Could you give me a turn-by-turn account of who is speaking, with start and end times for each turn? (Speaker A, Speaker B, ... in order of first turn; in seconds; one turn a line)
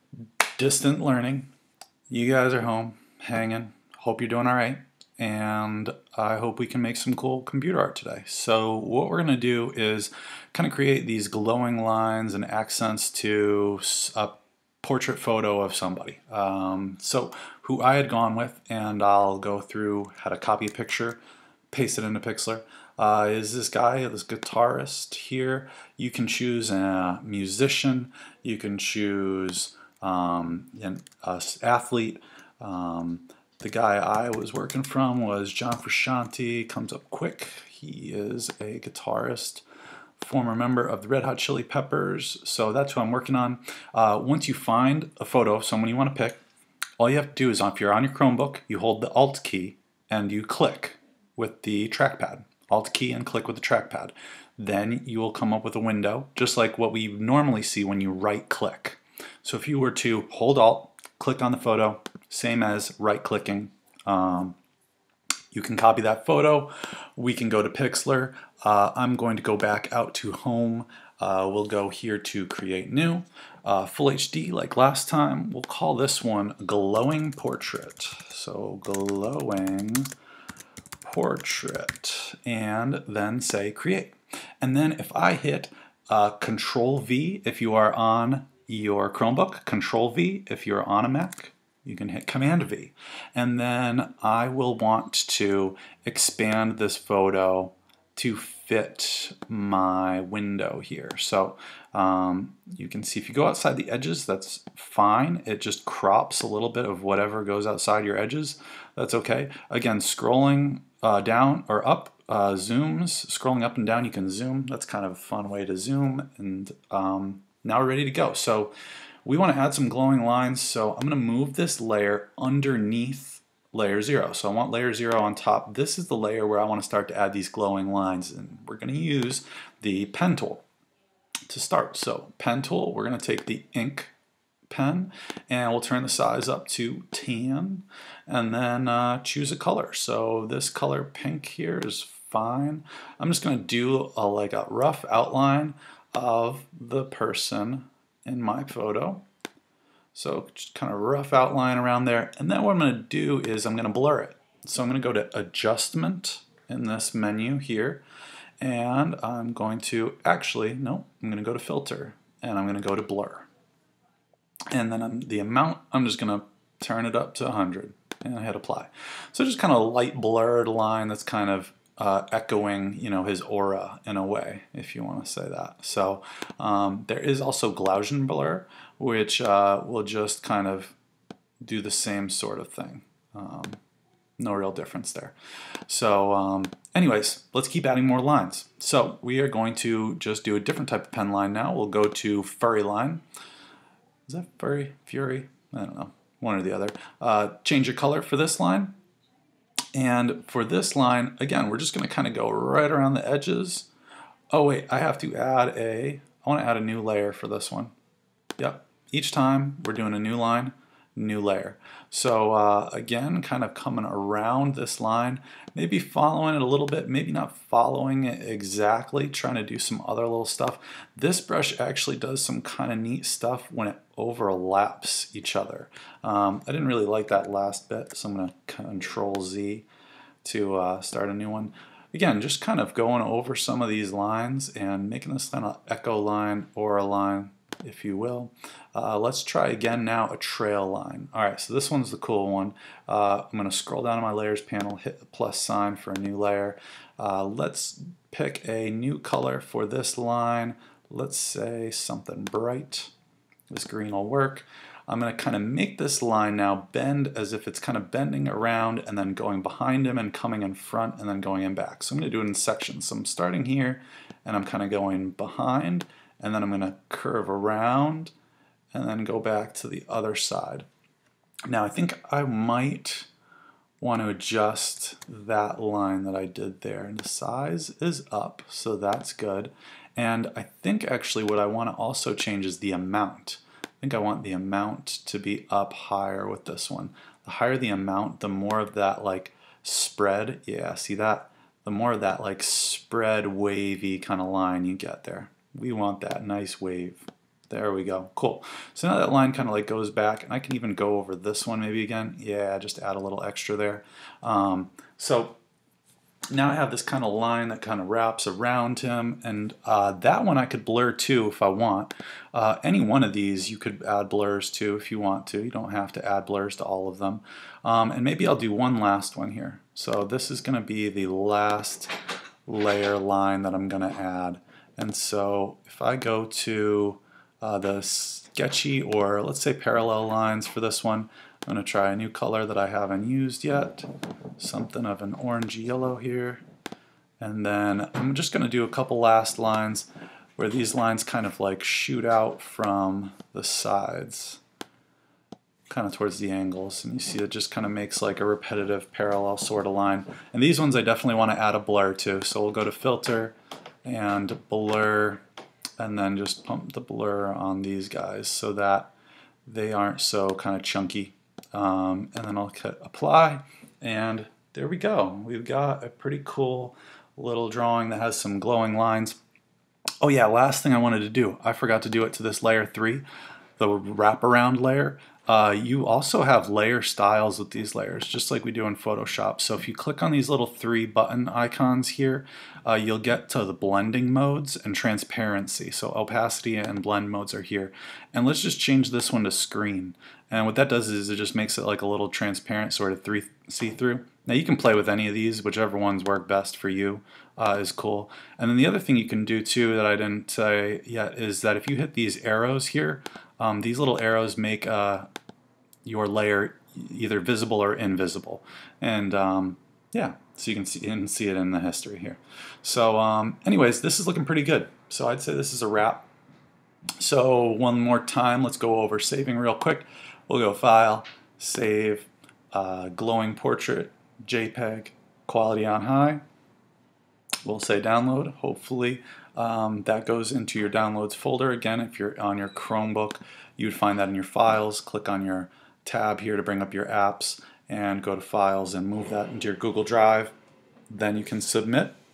Speaker A: 0.6-1.5
Speaker A: 2.1-21.2
Speaker A: 21.7-39.6
Speaker A: 40.2-46.4
Speaker A: 47.0-64.6
Speaker A: 65.5-80.1
Speaker A: 81.0-118.7
Speaker A: 119.2-130.6
Speaker A: 131.5-134.1
Speaker A: 134.7-149.2
Speaker A: 150.1-158.0
Speaker A: 158.6-163.5
Speaker A: 164.7-180.9
Speaker A: 181.6-183.8
Speaker A: 184.4-185.3
Speaker A: 185.9-193.2
Speaker A: 194.3-198.9
Speaker A: 199.9-203.9
Speaker A: 204.5-207.9
Speaker A: 208.6-229.9
Speaker A: 230.4-253.1
Speaker A: 253.7-268.3
Speaker A: 268.9-270.9
Speaker A: 271.7-273.3
Speaker A: 274.0-305.6
Speaker A: 306.5-322.1
Speaker A: 322.7-336.6
Speaker A: 337.4-344.6
Speaker A: 345.9-355.4
Speaker A: 356.0-359.1
Speaker A: 359.7-369.4
Speaker A: 370.2-373.2
Speaker A: 373.8-405.3
Speaker A: 406.1-416.3
Speaker A: 417.2-426.4
Speaker A: 427.6-440.5
Speaker A: 441.1-442.2